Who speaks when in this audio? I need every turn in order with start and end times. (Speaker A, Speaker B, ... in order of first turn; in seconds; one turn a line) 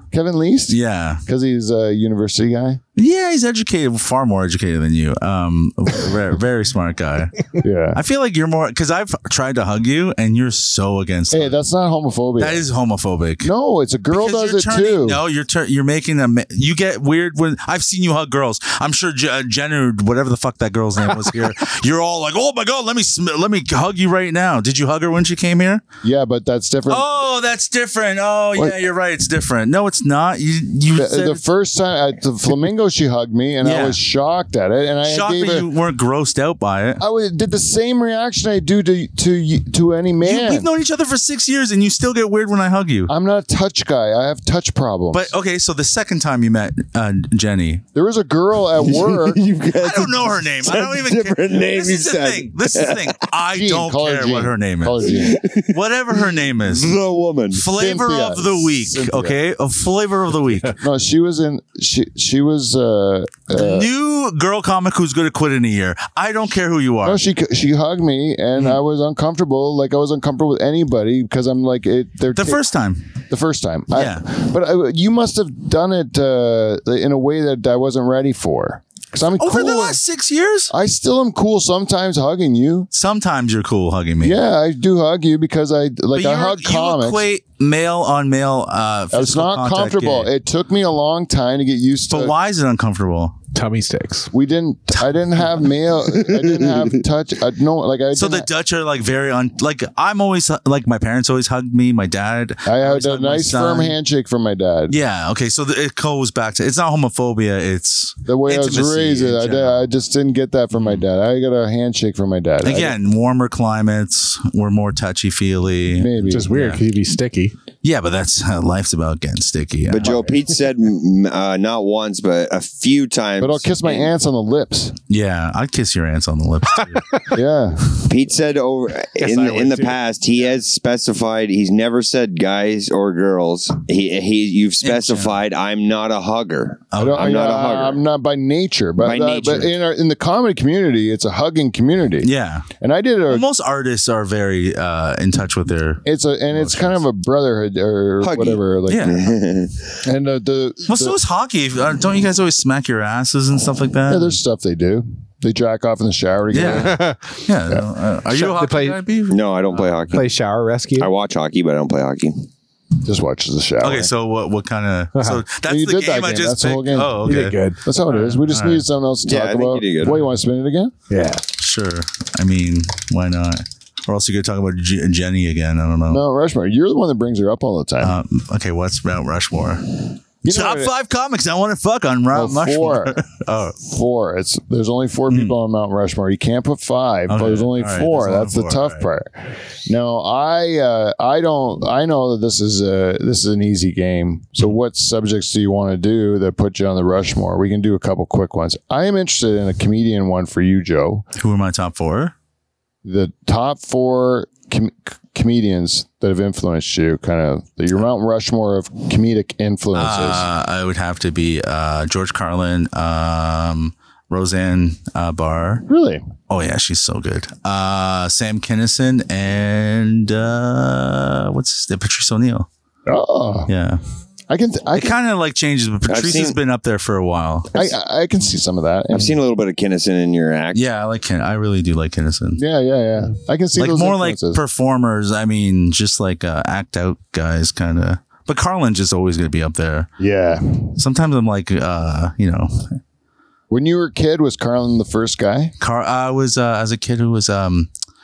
Speaker A: 0.1-2.8
Speaker B: 0.7-1.2
Speaker B: 3.0-11.5
Speaker A: 7.6-8.0
Speaker A: 11.3-12.6
Speaker B: 12.4-13.5
Speaker A: 13.4-15.2
Speaker B: 14.1-25.8
Speaker A: 26.0-27.1
Speaker B: 26.9-31.4
Speaker A: 30.9-35.7
Speaker B: 33.6-34.0
Speaker B: 35.0-37.0
Speaker A: 37.0-40.7
Speaker B: 40.2-43.1
Speaker A: 43.1-45.3
Speaker B: 45.1-47.8
Speaker A: 47.9-49.4
Speaker C: 48.8-53.1
Speaker B: 49.7-57.0
Speaker A: 53.5-55.4
Speaker C: 55.1-55.8
Speaker C: 56.6-57.6
Speaker B: 57.5-60.8
Speaker A: 57.6-59.4
Speaker A: 60.8-63.9
Speaker B: 63.5-67.2
Speaker A: 67.0-72.6
Speaker B: 72.3-73.1
Speaker A: 73.3-80.0
Speaker B: 73.9-74.2
Speaker B: 79.4-80.7
Speaker A: 80.7-82.9
Speaker B: 82.9-84.4
Speaker A: 84.2-87.2
Speaker B: 86.1-90.3
Speaker A: 89.1-92.3
Speaker B: 92.1-93.4
Speaker D: 93.5-94.3
Speaker A: 94.3-98.5
Speaker C: 96.3-96.9
Speaker B: 98.1-104.0
Speaker A: 102.6-104.9
Speaker B: 104.9-109.8
Speaker A: 108.2-113.0
Speaker B: 110.7-111.0
Speaker B: 112.6-116.8
Speaker A: 115.9-116.5
Speaker D: 116.2-117.5
Speaker B: 117.8-120.2
Speaker C: 119.9-124.1
Speaker A: 123.4-125.0
Speaker B: 125.1-127.2
Speaker D: 127.0-127.3
Speaker A: 127.3-128.0
Speaker C: 128.0-138.0
Speaker D: 129.2-130.0
Speaker B: 134.8-135.4
Speaker B: 136.9-137.4
Speaker A: 137.0-143.4
Speaker C: 139.0-139.7
Speaker B: 142.2-142.7
Speaker B: 143.3-147.0
Speaker A: 146.0-149.2
Speaker C: 148.2-149.9
Speaker B: 148.9-149.2
Speaker A: 150.0-151.2
Speaker B: 150.9-154.4
Speaker A: 154.1-157.0
Speaker B: 156.5-160.2
Speaker D: 156.7-157.4
Speaker D: 158.3-159.0
Speaker C: 159.3-160.3
Speaker D: 160.1-161.1
Speaker C: 161.0-162.5
Speaker A: 163.0-164.1
Speaker B: 163.8-168.8
Speaker D: 165.2-165.4
Speaker A: 165.6-170.9
Speaker D: 167.2-167.8
Speaker C: 169.2-170.2
Speaker D: 171.1-171.4
Speaker B: 171.6-176.2
Speaker A: 176.1-178.1
Speaker B: 178.0-183.8
Speaker A: 180.4-180.9
Speaker A: 182.3-183.2
Speaker A: 183.8-201.2
Speaker B: 185.3-185.5
Speaker B: 187.3-189.1
Speaker B: 201.3-202.3
Speaker A: 203.0-210.5
Speaker B: 209.9-215.8
Speaker A: 215.9-216.2
Speaker B: 216.5-222.7
Speaker A: 223.1-223.7
Speaker B: 223.7-224.0
Speaker A: 224.5-225.1
Speaker B: 224.9-227.9
Speaker C: 226.1-226.6
Speaker A: 227.7-229.3
Speaker C: 229.1-230.8
Speaker B: 230.7-232.6
Speaker A: 232.6-234.6
Speaker B: 233.8-240.1
Speaker A: 240.2-241.0
Speaker B: 240.9-243.0
Speaker A: 243.7-245.7
Speaker B: 245.8-247.9